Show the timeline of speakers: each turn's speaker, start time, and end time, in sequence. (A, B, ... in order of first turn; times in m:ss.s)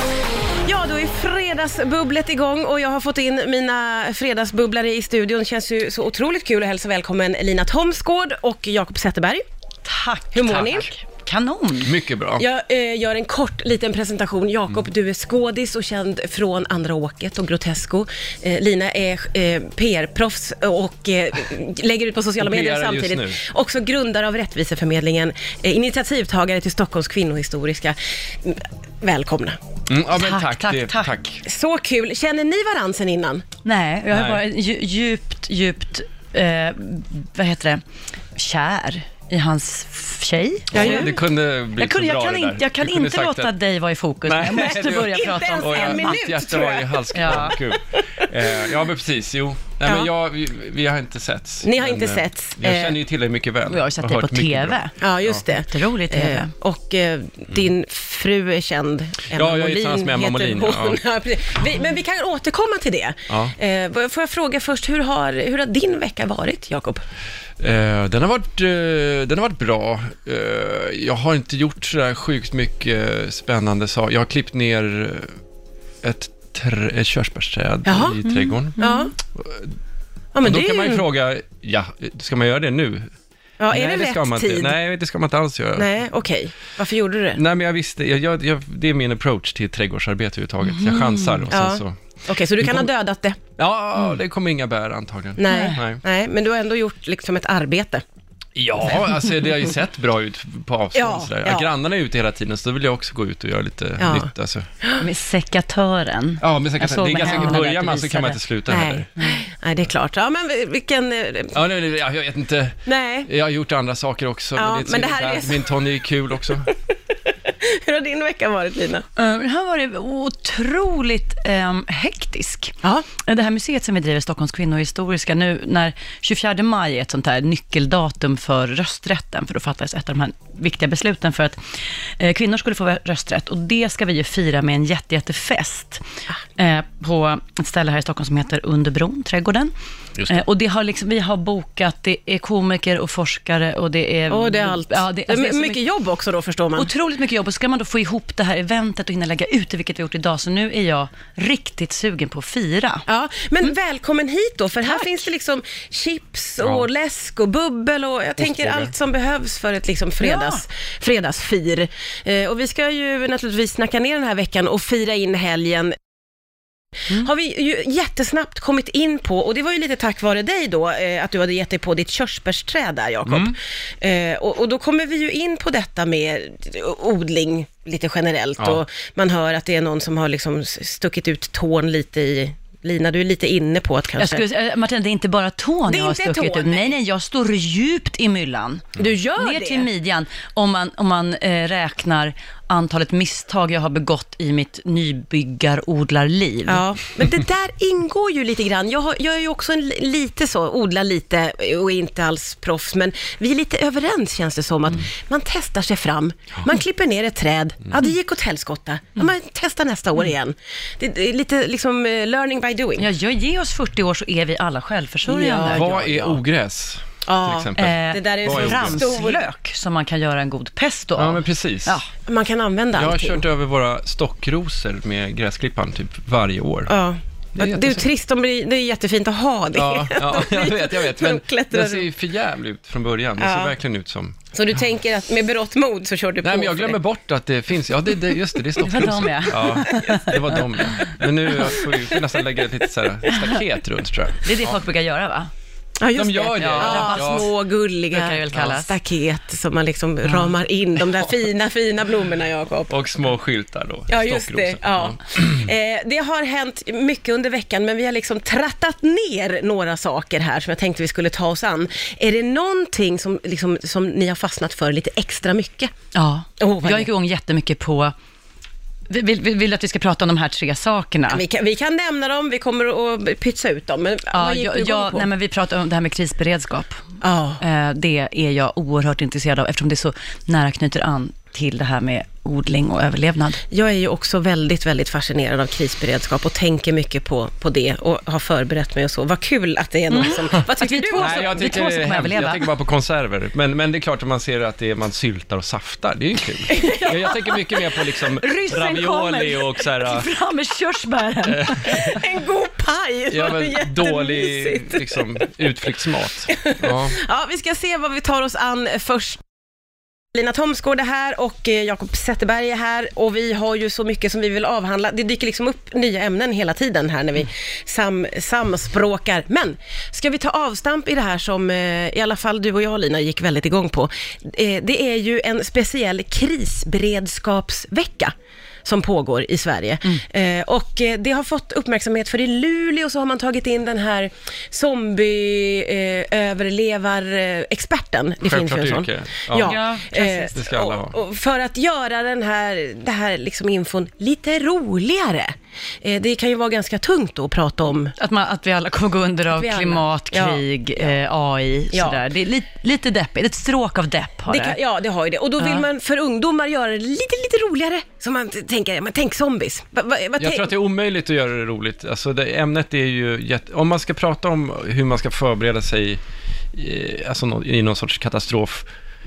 0:00.6-0:09.4 A
0:09.8-0:11.9 B
0:10.3-0:10.9 A
0:11.8-0:12.4 C
0:12.4-0:29.6 A
0:22.4-0:23.4 C
0:29.9-0:31.4 C
0:30.1-0:31.1 B
0:31.4-0:33.4 A
0:33.6-0:37.8 B
0:34.1-0:34.4 C
0:38.4-0:41.2 B
0:40.7-0:41.2 A
0:40.7-0:43.5 C
0:41.8-0:46.2 B
0:44.2-0:55.4 C
0:44.6-0:47.4 A
0:47.1-0:47.6 B
0:48.0-0:48.3 A
0:49.8-0:50.1 A
0:51.6-0:53.0 A
0:53.7-0:54.9 B
0:55.0-1:07.0 A
0:55.5-0:56.5 B
0:59.3-1:01.0 C
1:03.3-1:03.5 C
1:07.6-1:15.3 C
1:16.0-1:18.8 C
1:17.9-1:18.2 A
1:18.8-1:19.1 B
1:18.8-1:19.1 A
1:19.3-1:19.8 C
1:20.3-1:21.0 A
1:20.4-1:23.1 C
1:23.6-1:24.8 A
1:23.7-1:26.0 C
1:25.8-1:27.4 A
1:27.3-1:32.0 C
1:30.6-1:31.4 B
1:31.5-1:33.4 A
1:32.6-1:32.9 C
1:33.6-1:36.0 C
1:35.4-1:38.0 A
1:35.5-1:35.8 B
1:38.6-1:44.7 C
1:40.9-1:41.7 A
1:44.0-1:44.3 A
1:45.0-1:48.4 B
1:46.4-1:49.1 C
1:48.7-1:51.6 A
1:51.5-1:56.7 C
1:52.9-1:53.3 A
1:54.6-1:55.7 A
1:57.6-1:59.0 A
1:59.2-2:11.6 B
2:12.2-2:16.0 B
2:16.6-2:19.7 B
2:20.3-2:25.8 B
2:24.3-2:26.9 A
2:26.8-2:33.0 B
2:33.1-2:46.0 A
2:34.8-2:35.2 B
2:36.6-2:36.9 C
2:38.4-2:38.9 C
2:40.2-2:40.6 B
2:47.1-3:04.4 A
2:53.3-2:53.6 C
3:04.2-3:16.8 B
3:05.9-3:07.0 A
3:09.0-3:09.9 A
3:16.7-3:33.1 A
3:33.0-3:36.0 B
3:35.2-3:36.4 A
3:35.7-3:39.1 C
3:37.3-3:39.5 A
3:37.8-3:42.1 B
3:41.2-3:42.0 C
3:42.3-3:43.4 A
3:42.9-3:46.9 C
3:46.9-3:52.1 A
3:47.6-3:48.0 C
3:49.7-3:54.5 C
3:53.4-3:53.8 A
3:54.5-3:57.0 A
3:56.4-4:04.8 C
3:58.8-4:00.9 B
4:00.0-4:02.2 A
4:04.4-4:05.5 B
4:06.0-4:12.9 A
4:06.1-4:07.5 C
4:06.5-4:07.5 B
4:08.1-4:08.9 B
4:10.3-4:10.5 B
4:12.9-4:15.4 C
4:14.1-4:25.9 A
4:26.1-4:28.1 B
4:26.6-4:27.1 A
4:29.1-4:31.4 B
4:31.3-4:35.3 A
4:34.3-4:37.0 B
4:37.2-4:37.6 A
4:37.6-4:43.6 B
4:43.7-4:51.8 A
4:50.1-4:52.7 B
4:51.2-5:00.3 C
4:56.7-5:02.0 B
4:56.7-4:57.0 A
5:01.5-5:01.8 C
5:01.8-5:05.4 A
5:03.3-5:07.2 C
5:06.5-5:09.4 A
5:10.4-5:28.3 A
5:28.8-5:48.1 A
5:38.4-5:39.8 C
5:39.6-5:40.6 B
5:40.5-5:41.2 C
5:48.2-5:54.8 B
5:49.6-5:50.6 A
5:51.9-5:52.2 A
5:54.5-6:00.8 A
5:55.6-5:55.9 B
6:00.4-6:06.2 C
6:06.7-6:08.9 C